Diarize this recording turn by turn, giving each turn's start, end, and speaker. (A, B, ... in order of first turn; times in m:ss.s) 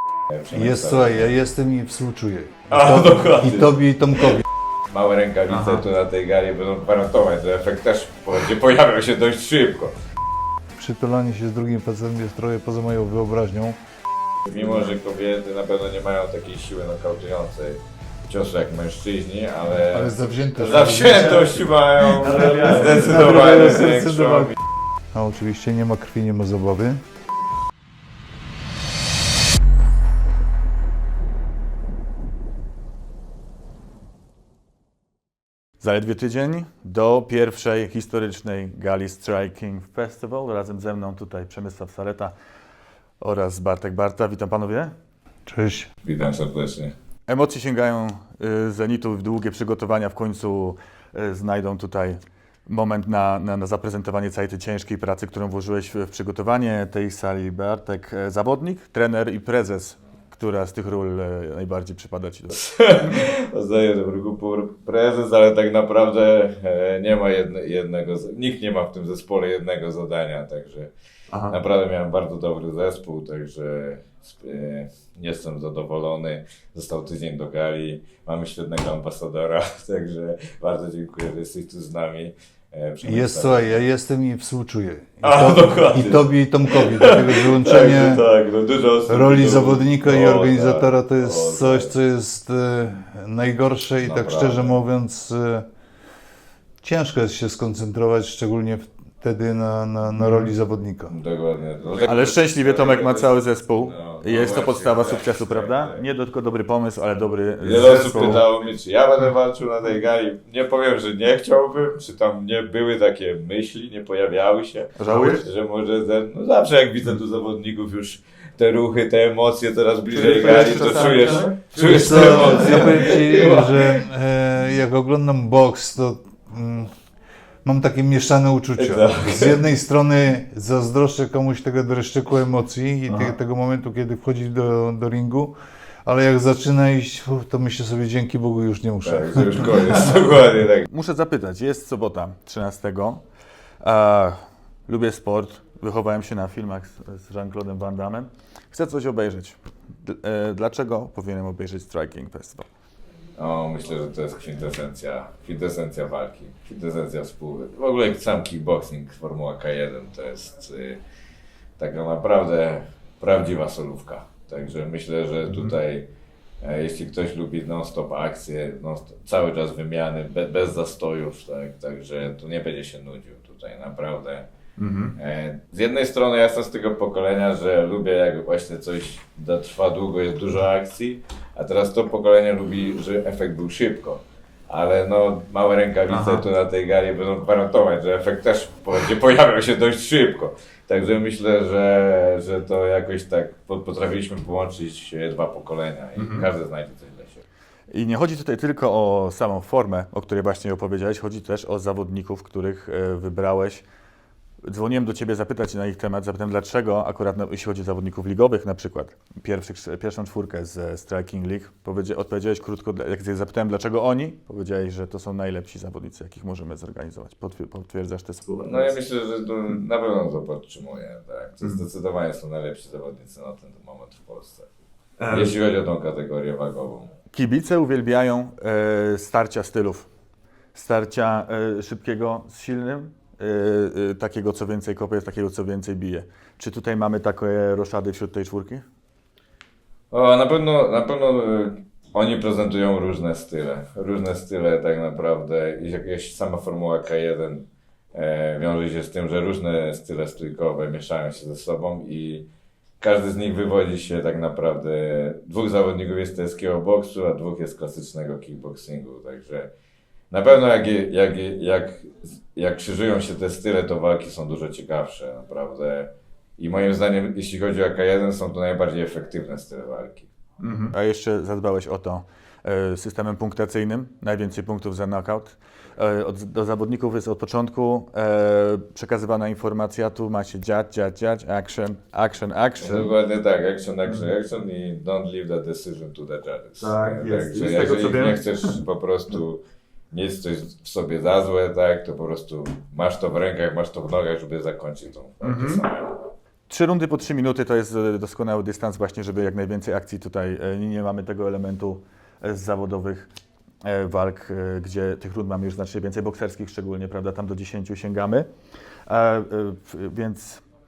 0:00.3-0:01.2 A
0:00.5-0:04.4 B
0:02.7-0:09.9 A
0:05.5-0:05.8 C
0:10.8-0:13.8 B
0:14.5-0:24.6 A
0:19.9-0:21.5 B
0:22.2-0:23.0 C
0:22.3-0:24.6 B
0:25.1-0:27.0 B
0:35.8-0:42.3 C
0:43.2-0:44.9 C
0:45.5-0:45.9 B
0:46.0-0:46.9 A
0:47.3-1:03.2 C
1:02.6-1:10.9 A
1:11.3-1:11.6 C
1:11.5-1:23.7 A
1:23.0-1:28.3 B
1:25.2-1:31.9 A
1:29.1-1:35.7 B
1:34.0-1:34.8 A
1:36.8-1:41.1 B
1:40.2-1:40.5 C
1:41.1-1:46.0 A
1:42.0-1:48.4 C
1:47.6-2:04.0 A
1:55.0-1:55.4 C
2:00.1-2:03.0 C
2:01.8-2:06.9 B
2:07.6-2:19.9 B
2:08.8-2:09.6 A
2:19.0-2:20.9 A
2:20.9-2:23.2 C
2:23.8-2:32.7 C
2:33.4-2:41.0 A
2:41.8-2:46.0 A
2:45.5-2:45.8 C
2:46.6-2:54.5 A
2:54.8-2:55.2 C
2:55.2-3:17.4 A
3:06.1-3:06.4 C
3:16.2-3:16.5 C
3:17.9-3:23.9 C
3:24.6-3:39.0 C
3:38.6-3:44.7 A
3:45.2-3:45.6 C
3:45.3-3:47.1 A
3:47.3-3:50.1 C
3:50.7-3:58.8 C
4:00.1-4:12.5 A
4:13.0-4:19.7 A
4:20.3-4:30.3 A
4:30.6-4:43.1 C
4:42.8-4:56.2 A
4:46.8-4:48.8 C
4:55.4-4:55.8 C
4:56.7-5:03.3 C
5:03.8-5:08.5 C
5:09.1-5:10.6 C